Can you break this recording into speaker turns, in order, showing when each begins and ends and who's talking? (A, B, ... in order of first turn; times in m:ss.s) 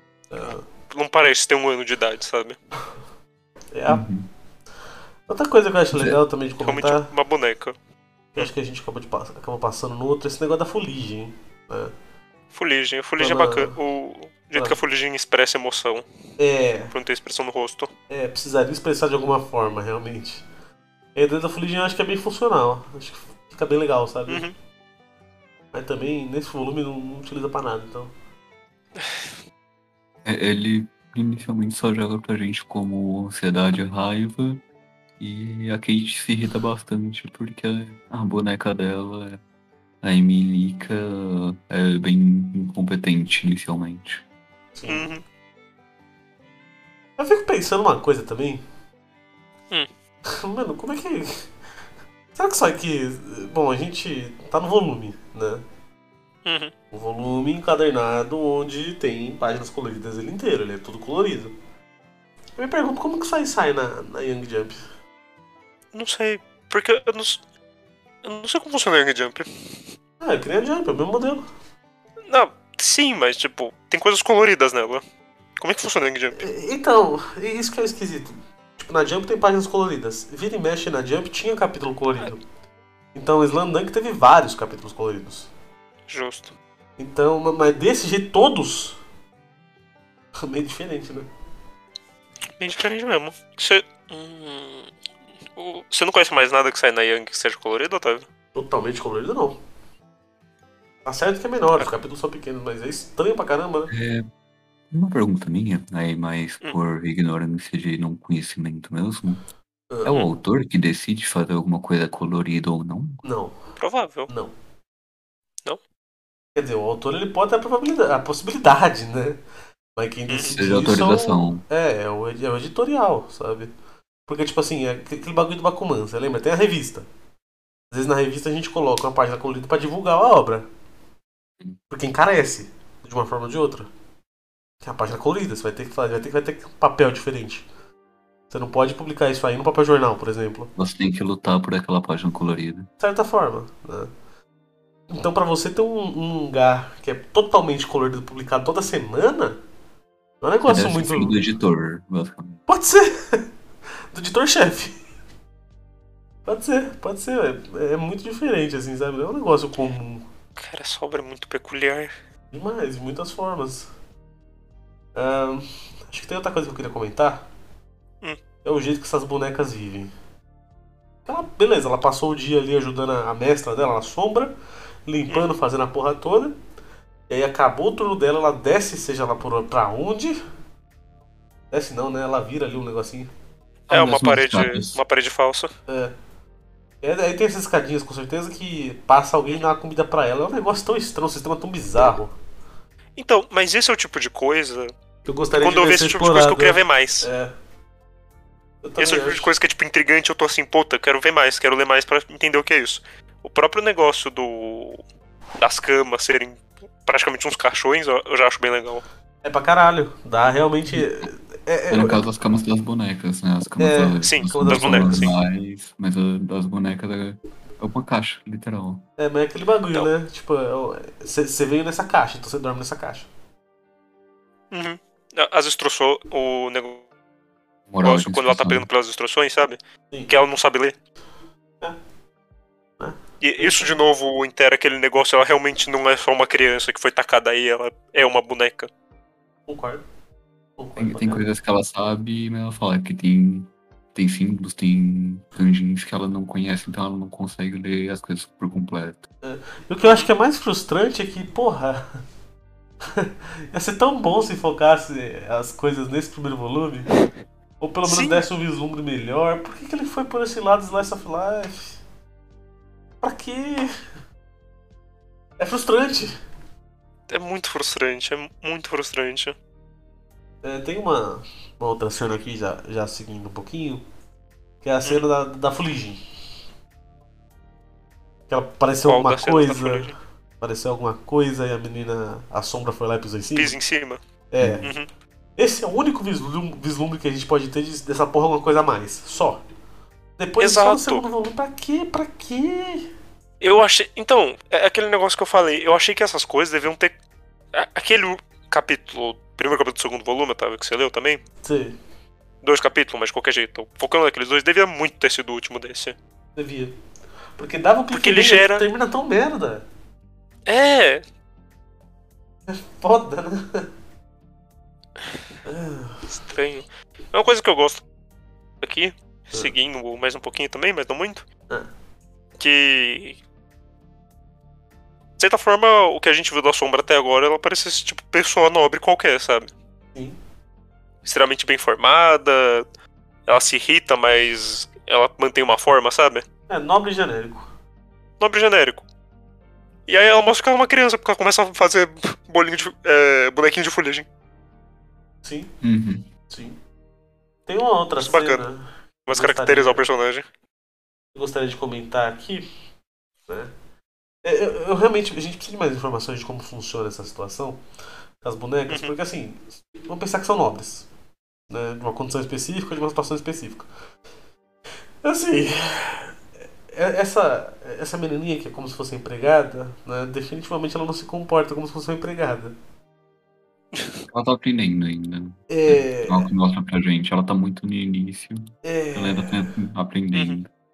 0:00.3-0:00.6 A
0:00.9-0:02.6 B
0:03.7-0:04.0 A
0:03.9-0:04.3 C
0:05.3-0:07.1 A
0:06.6-0:07.7 B
0:08.3-0:11.9 A
0:12.5-0:16.0 B
0:13.2-0:13.7 A
0:16.4-0:16.9 A
0:16.9-0:17.9 B
0:18.1-0:20.4 A
0:21.2-0:24.4 A
0:24.3-0:24.5 B
0:25.7-0:28.1 A
0:29.0-0:29.3 B
0:30.2-0:34.6 C
0:35.2-0:39.4 C
0:40.0-0:44.2 C
0:44.7-0:45.1 A
0:44.9-0:45.2 B
0:47.2-0:48.6 A
0:50.3-0:51.5 A
0:52.3-0:55.6 A
0:56.4-0:56.7 B
0:56.9-1:01.5 A
1:02.6-1:04.8 A
1:05.9-1:07.4 B
1:08.2-1:09.5 B
1:10.2-1:11.4 A
1:12.3-1:15.0 B
1:15.6-1:16.4 B
1:16.4-1:22.4 A
1:23.1-1:25.5 A
1:26.1-1:26.5 B
1:27.0-1:29.0 A
1:30.4-1:31.3 A
1:32.6-1:34.9 B
1:35.5-1:38.3 B
1:38.5-1:39.6 A
1:41.0-1:43.9 A
1:43.9-1:44.3 C
1:44.9-1:49.4 C
1:50.0-1:53.2 C
1:53.2-1:53.6 A
1:53.8-1:54.3 B
1:54.3-1:54.5 A
1:56.5-1:59.4 A
2:00.0-2:03.7 A
2:00.3-2:00.6 B
2:00.5-2:01.6 C
2:04.3-2:07.1 A
2:07.9-2:10.7 A
2:11.9-2:13.9 A
2:14.8-2:17.6 A
2:18.5-2:20.7 A
2:20.8-2:22.9 C
2:23.0-2:24.1 A
2:25.1-2:29.6 A
2:30.4-2:31.4 A
2:30.6-2:32.6 C
2:32.7-2:33.5 A
2:34.1-2:35.0 A
2:36.4-2:40.2 A
2:40.6-2:42.1 B
2:42.5-2:43.9 A
2:45.1-2:47.5 A
2:48.6-2:50.1 A
2:51.2-2:54.5 A
2:55.0-2:56.6 A
2:57.3-3:00.4 A
3:01.7-3:03.3 A
3:03.9-3:05.0 C
3:03.9-3:05.7 B
3:05.9-3:06.1 A
3:07.0-3:12.3 A
3:13.2-3:14.9 B
3:15.2-3:17.5 A
3:15.6-3:17.3 B
3:18.8-3:19.5 A
3:19.0-3:25.0 B
3:25.6-3:29.0 B
3:29.4-3:32.2 A
3:31.9-3:39.0 C
3:33.8-3:35.3 A
3:34.2-3:35.3 B
3:39.2-3:43.3 A
3:44.7-3:47.0 B
3:47.9-3:48.8 C
3:48.0-3:50.9 B
3:53.0-3:54.0 A
3:53.4-3:58.9 B
3:59.7-4:00.0 A
4:00.8-4:01.4 A
4:01.0-4:09.3 C
4:09.4-4:12.1 A
4:10.0-4:10.3 B
4:13.1-4:17.1 A
4:17.8-4:22.0 A
4:18.0-4:18.4 B
4:23.2-4:23.9 A
4:25.6-4:26.3 A
4:27.3-4:29.5 B
4:30.6-4:34.0 A
4:34.8-4:36.2 A
4:38.5-4:40.1 A
4:39.1-4:40.2 B
4:40.6-4:43.7 A
4:43.6-4:44.2 B
4:44.5-4:44.9 A
4:45.6-4:49.6 A
4:50.4-4:53.1 A
4:50.6-4:51.2 B
4:53.6-4:57.1 B
4:57.7-5:01.4 B
5:01.6-5:02.0 A
5:02.6-5:06.2 B
5:06.6-5:07.0 A
5:07.6-5:09.8 A
5:08.1-5:08.8 B
5:10.7-5:11.2 B
5:12.7-5:13.9 A
5:15.6-5:16.3 A
5:16.3-5:18.0 B
5:18.8-5:21.4 B
5:22.6-5:23.4 B
5:25.4-5:29.7 B
5:31.2-5:32.8 B
5:33.5-5:36.4 B
5:36.7-5:37.7 A
5:38.4-5:39.0 B
5:40.1-5:44.2 B
5:45.4-5:45.7 A
5:45.8-5:46.2 C
5:46.5-5:46.8 A
5:47.6-5:50.0 A
5:48.2-5:48.7 B
5:49.3-5:50.4 B
5:51.3-5:52.7 A
5:53.5-5:53.7 A
5:54.4-5:57.8 A
5:58.4-6:01.1 A
6:01.7-6:03.9 A
6:05.2-6:06.4 A
6:06.9-6:12.8 A
6:13.9-6:14.2 B
6:14.3-6:20.7 C
6:15.7-6:16.5 A
6:18.8-6:19.7 A
6:20.3-6:20.6 B